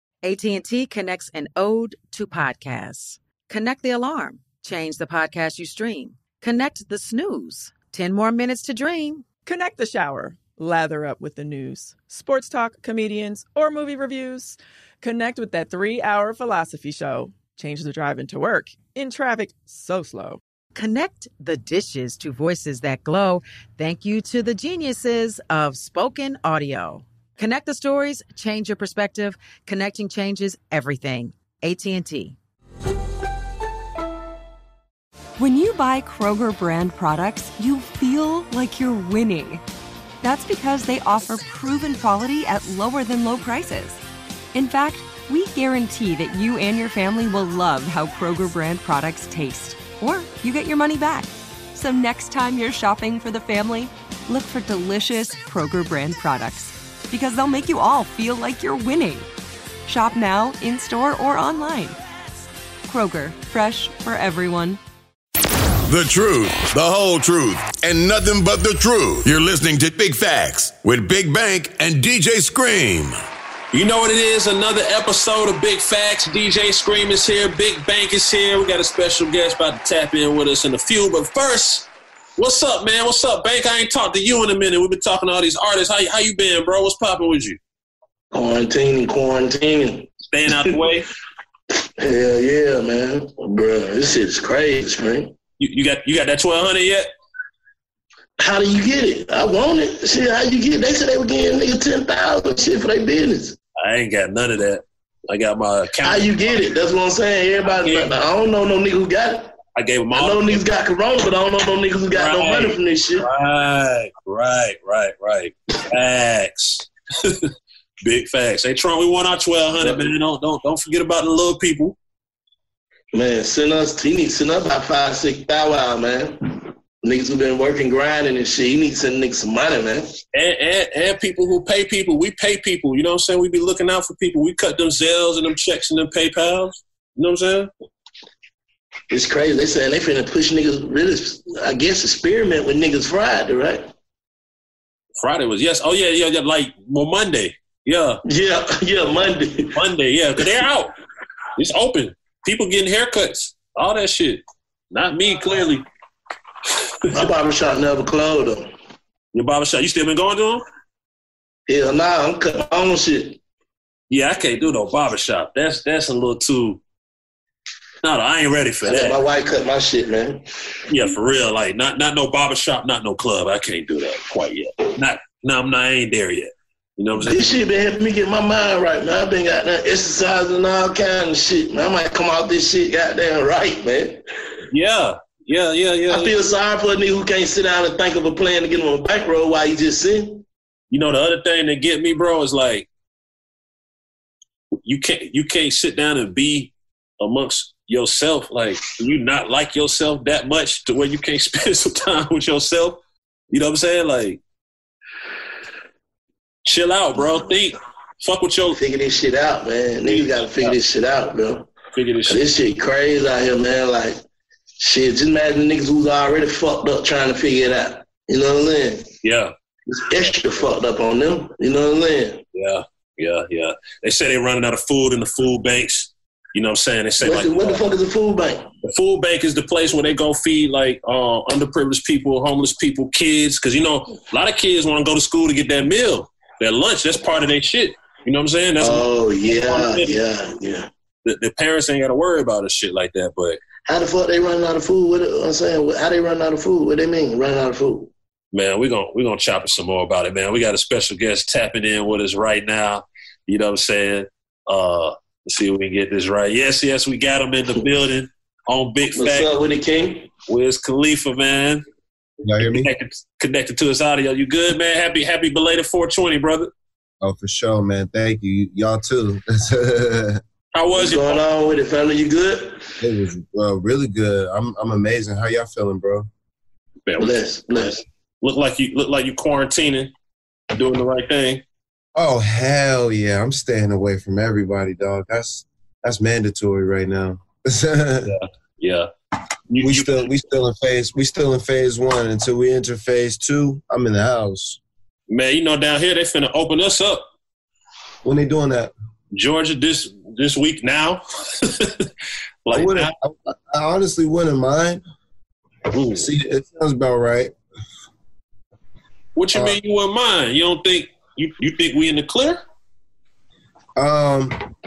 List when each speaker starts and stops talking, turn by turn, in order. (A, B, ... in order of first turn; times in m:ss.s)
0:00.2-0:09.4 A
0:09.4-0:20.4 B
0:20.8-0:32.4 A
0:35.4-0:39.6 C
0:40.2-0:44.0 C
0:44.5-0:59.3 C
0:59.9-1:02.0 C
1:02.9-1:04.8 C
1:05.9-1:13.2 D
1:13.7-1:27.6 E
1:28.3-1:30.6 F
1:30.3-1:31.1 E
1:32.0-1:35.3 F
1:35.6-1:37.1 E
1:38.4-1:43.6 F
1:43.8-1:46.6 E
1:46.0-1:49.5 F
1:47.7-1:48.1 E
1:49.8-1:50.6 E
1:50.1-1:53.3 F
1:52.1-1:57.5 E
1:58.0-2:02.0 E
1:59.8-2:00.1 F
2:03.1-2:06.4 F
2:07.0-2:10.1 F
2:10.3-2:17.7 E
2:19.1-2:23.9 F
2:25.2-2:28.2 E
2:28.3-2:29.7 F
2:29.8-2:30.9 E
2:31.6-2:35.8 E
2:37.1-2:38.7 F
2:39.3-2:40.6 E
2:41.7-2:43.4 F
2:44.1-2:46.8 E
2:48.0-2:49.2 E
2:48.8-2:50.4 F
2:50.9-2:57.6 E
2:57.2-3:04.2 F
3:04.7-3:06.4 E
3:06.1-3:10.4 F
3:10.9-3:12.9 E
3:14.8-3:23.0 E
3:23.5-3:24.4 E
3:26.6-3:28.8 E
3:28.8-3:31.7 F
3:30.0-3:30.8 E
3:32.0-3:32.4 E
3:32.3-3:34.2 F
3:34.8-3:39.1 F
3:39.2-3:39.5 E
3:39.9-3:42.4 F
3:42.5-3:47.9 E
3:47.2-3:48.7 F
3:48.8-4:00.2 E
3:58.8-4:00.9 F
4:01.2-4:03.6 E
4:03.9-4:08.1 F
4:08.5-4:19.6 E
4:19.2-4:20.3 F
4:20.5-4:21.8 E
4:22.4-4:22.9 G
4:22.6-4:26.7 E
4:27.2-4:30.4 G
4:30.7-4:31.4 E
4:30.9-4:32.9 F
4:33.0-4:36.3 G
4:37.1-4:40.1 E
4:37.2-4:38.0 F
4:40.7-4:41.6 E
4:42.2-4:48.3 G
4:48.3-4:49.1 E
4:49.7-4:50.3 E
4:49.8-4:54.8 G
4:55.3-4:57.2 E
4:58.2-4:58.9 G
4:59.3-5:02.1 E
5:02.7-5:03.1 E
5:02.7-5:05.0 G
5:05.9-5:06.3 E
5:06.1-5:07.5 G
5:09.4-5:12.6 E
5:14.0-5:14.6 G